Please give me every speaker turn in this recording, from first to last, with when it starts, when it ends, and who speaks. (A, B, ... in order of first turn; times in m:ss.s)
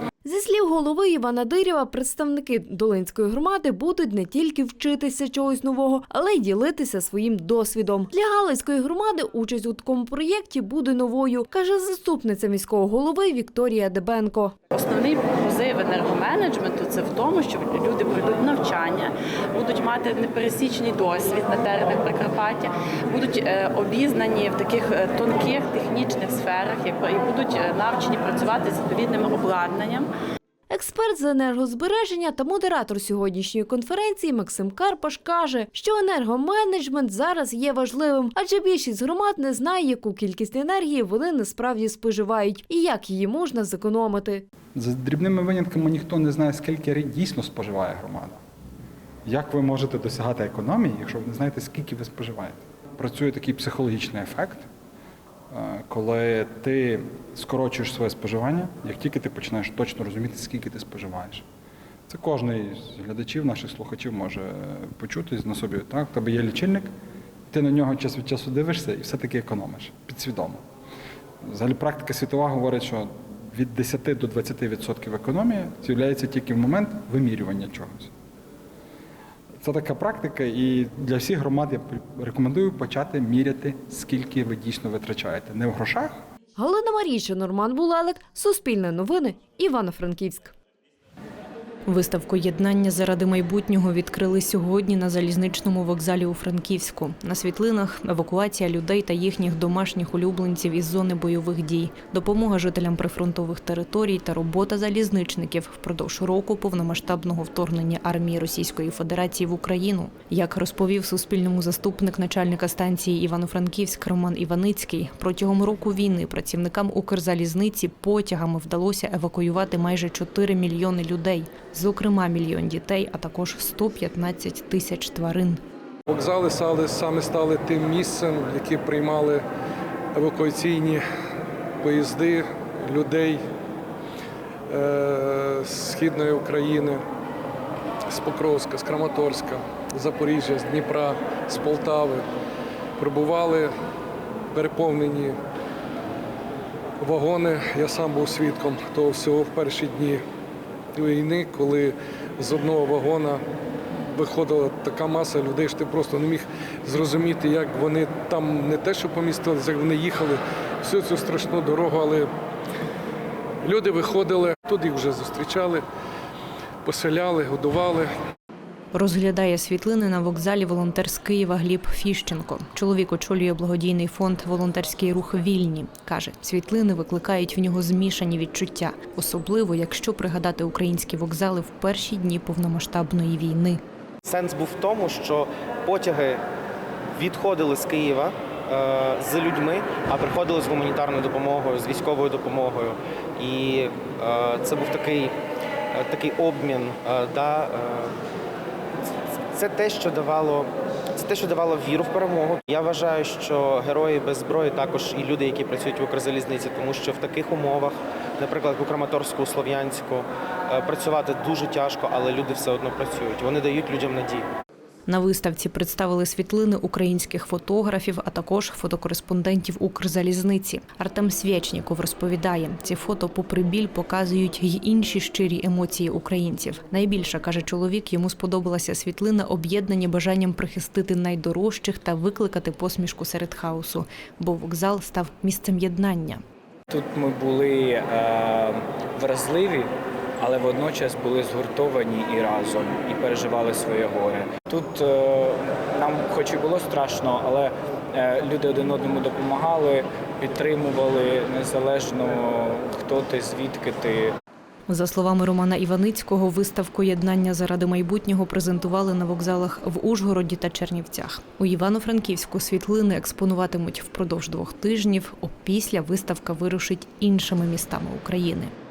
0:00.2-0:14.5 A
0:14.7-0:30.1 B
0:30.7-0:44.4 A
0:44.7-0:48.4 C
0:49.2-0:54.7 C
0:55.5-1:01.4 C
1:02.1-1:06.9 C
1:07.5-1:10.6 C
1:11.5-1:18.1 C
1:19.6-1:26.1 C
1:26.6-1:30.5 A
1:31.9-2:05.6 D
2:06.1-2:09.4 E
2:10.1-2:11.0 E
2:11.8-2:13.4 E
2:14.7-2:17.0 E
2:18.1-2:22.2 E
2:23.0-2:23.7 E
2:24.5-2:25.4 E
2:27.0-2:30.2 E
2:30.9-2:33.4 E
2:34.1-2:42.3 E
2:43.6-2:45.8 E
2:46.8-2:48.1 E
2:48.9-3:03.8 D
3:04.2-3:06.4 F
3:07.2-3:15.3 F
3:15.9-3:18.1 F
3:19.5-3:34.4 F
3:35.1-3:56.4 D
3:56.9-3:59.9 G
4:00.4-4:14.3 G
4:14.9-4:28.7 D